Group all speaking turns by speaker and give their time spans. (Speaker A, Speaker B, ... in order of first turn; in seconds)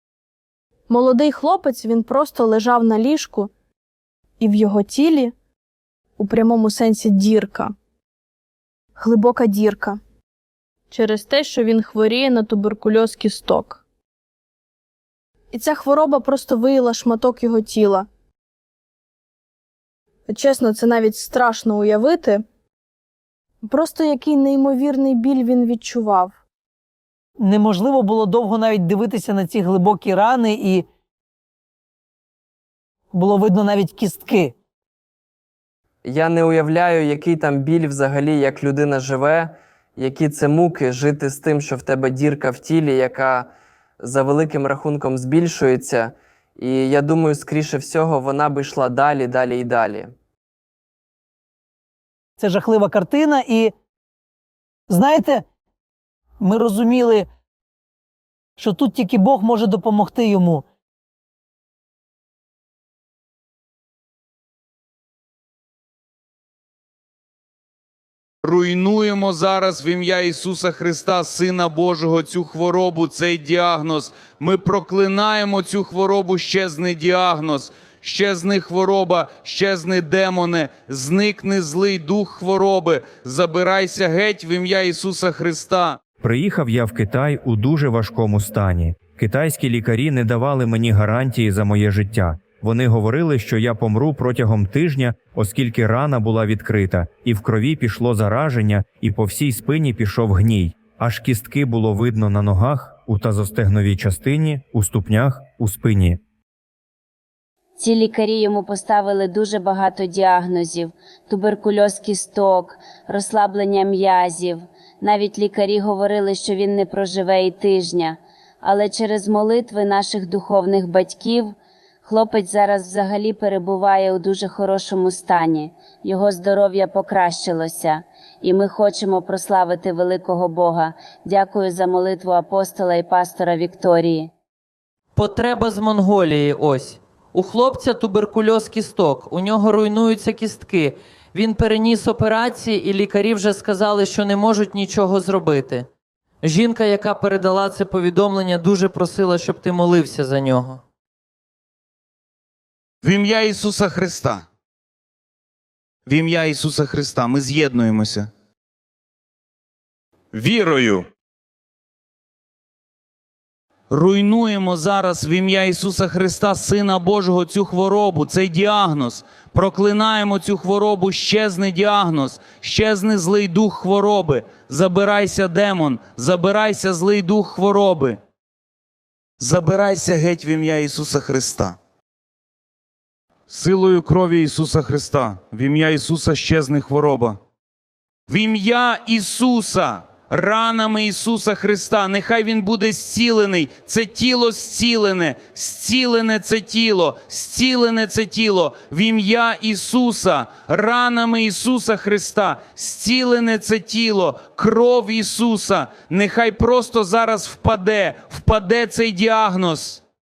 Speaker A: 0.9-3.5, 4.4-5.3, 6.2-7.7, 8.9-10.0, 10.9-13.8, 15.5-18.1, 20.3-22.4, 23.6-26.3
Speaker B: 27.4-30.8, 33.1-34.5, 52.4-53.7, 54.9-55.4, 56.4-57.2, 58.6-60.6
Speaker C: 36.0-50.1
Speaker D: 68.4-86.0, 153.0-154.4, 156.1-158.3, 160.3-161.1, 163.9-178.2, 179.4-181.8, 183.5-187.4, 188.3-210.0
Speaker E: 86.2-106.2
Speaker F: 107.8-134.3
Speaker G: 135.2-145.9, 146.4-150.8